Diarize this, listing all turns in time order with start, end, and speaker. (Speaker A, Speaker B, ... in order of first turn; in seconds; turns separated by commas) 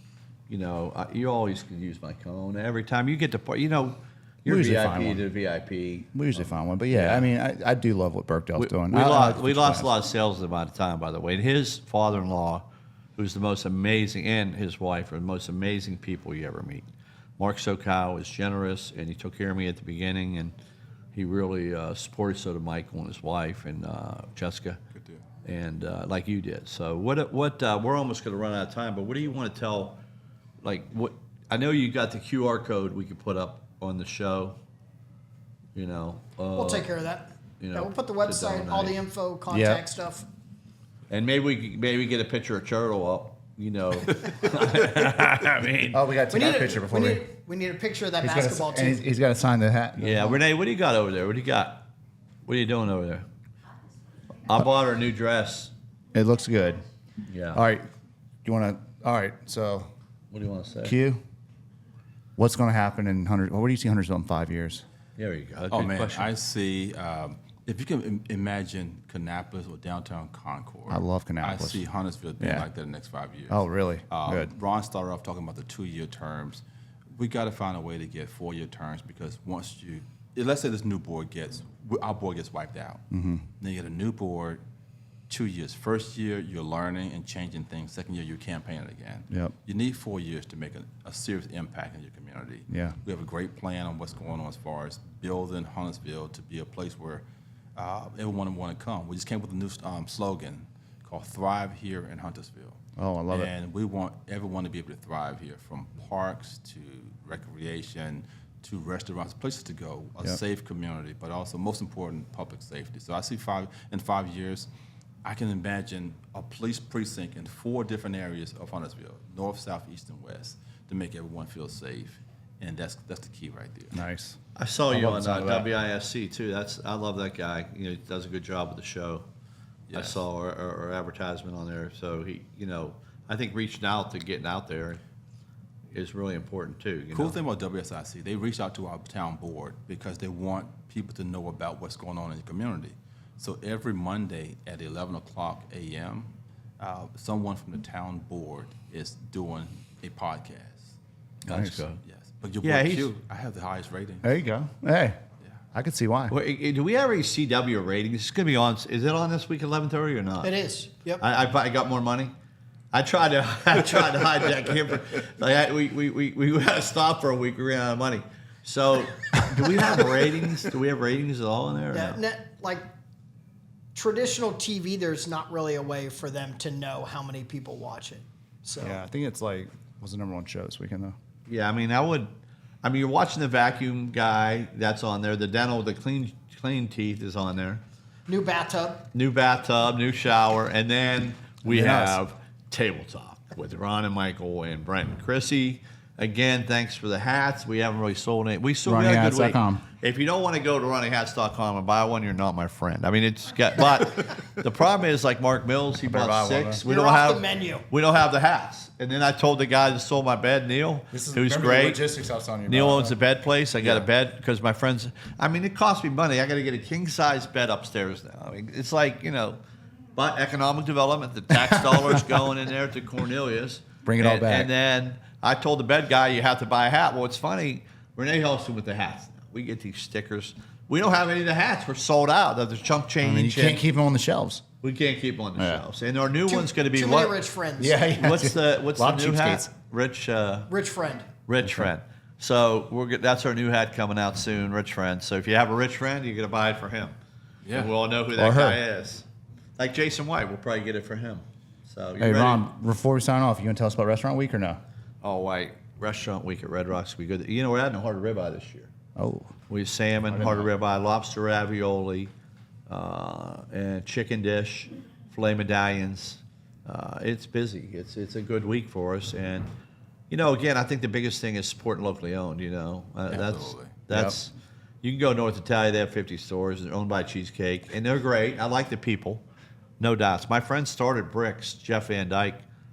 Speaker A: 0.5-7.3, Speaker B: 4.4-5.2, Speaker B: 6.1-9.9, Speaker A: 8.6-12.6, Speaker A: 13.2-16.8, Speaker A: 17.4-20.5, Speaker A: 21.1-24.8, Speaker C: 24.9-25.2, Speaker A: 25.4-30.0, Speaker A: 30.6-34.6, Speaker A: 35.7-36.9, Speaker D: 36.5-40.2, Speaker A: 37.6-39.0, Speaker B: 39.5-39.8, Speaker A: 41.1-46.0, Speaker B: 45.9-47.2, Speaker D: 46.3-49.0, Speaker B: 48.2-50.4, Speaker A: 50.0-51.9, Speaker A: 52.5-53.2, Speaker A: 54.5-55.7, Speaker B: 56.1-56.8, Speaker A: 57.3-57.6, Speaker B: 57.5-57.9, Speaker B: 58.4-59.9, Speaker A: 60.3-61.0, Speaker B: 60.8-61.2, Speaker B: 62.4-64.8, Speaker A: 65.2-66.3, Speaker C: 65.7-76.6, Speaker B: 70.9-71.8, Speaker B: 72.4-72.7, Speaker B: 73.5-74.5, Speaker C: 77.1-83.0, Speaker B: 83.1-83.5, Speaker C: 83.6-84.6, Speaker C: 85.3-97.2, Speaker B: 92.7-93.0, Speaker C: 97.8-102.8, Speaker B: 103.0-103.5, Speaker C: 103.3-114.7, Speaker C: 115.2-124.0, Speaker B: 123.9-124.4, Speaker A: 124.5-129.2, Speaker B: 124.9-125.7, Speaker C: 129.9-130.2, Speaker A: 129.9-135.0, Speaker A: 135.9-137.4, Speaker C: 137.1-150.9, Speaker A: 151.4-152.0, Speaker B: 151.5-151.8, Speaker C: 152.0-154.3, Speaker A: 152.6-153.1, Speaker B: 154.2-155.2, Speaker B: 155.7-156.3, Speaker A: 156.3-160.5, Speaker D: 160.4-161.2, Speaker A: 161.2-162.3, Speaker A: 162.9-172.2, Speaker D: 171.9-172.8, Speaker D: 173.9-179.0, Speaker B: 178.8-181.2, Speaker A: 181.5-182.3, Speaker A: 182.8-187.8, Speaker D: 188.3-189.0, Speaker A: 189.1-212.0, Speaker B: 191.6-192.2, Speaker B: 198.8-199.8, Speaker B: 206.1-206.8, Speaker D: 206.9-207.8, Speaker B: 211.1-213.2, Speaker A: 212.7-219.6, Speaker B: 213.8-214.1, Speaker A: 220.2-233.8, Speaker B: 224.0-224.7, Speaker B: 233.2-234.6, Speaker A: 234.8-237.3, Speaker D: 236.5-238.0, Speaker B: 237.8-239.7, Speaker A: 238.2-240.7, Speaker D: 240.7-241.3, Speaker A: 241.4-247.2, Speaker C: 247.6-247.9, Speaker A: 247.7-249.2, Speaker B: 248.3-248.8, Speaker A: 249.8-252.7, Speaker B: 252.2-254.8, Speaker A: 255.2-258.9, Speaker B: 259.1-259.5, Speaker A: 259.7-262.3, Speaker B: 260.3-260.7, Speaker A: 262.9-269.7, Speaker A: 270.3-274.5, Speaker C: 273.3-274.0, Speaker B: 274.1-274.4, Speaker A: 275.0-279.4, Speaker A: 280.0-282.6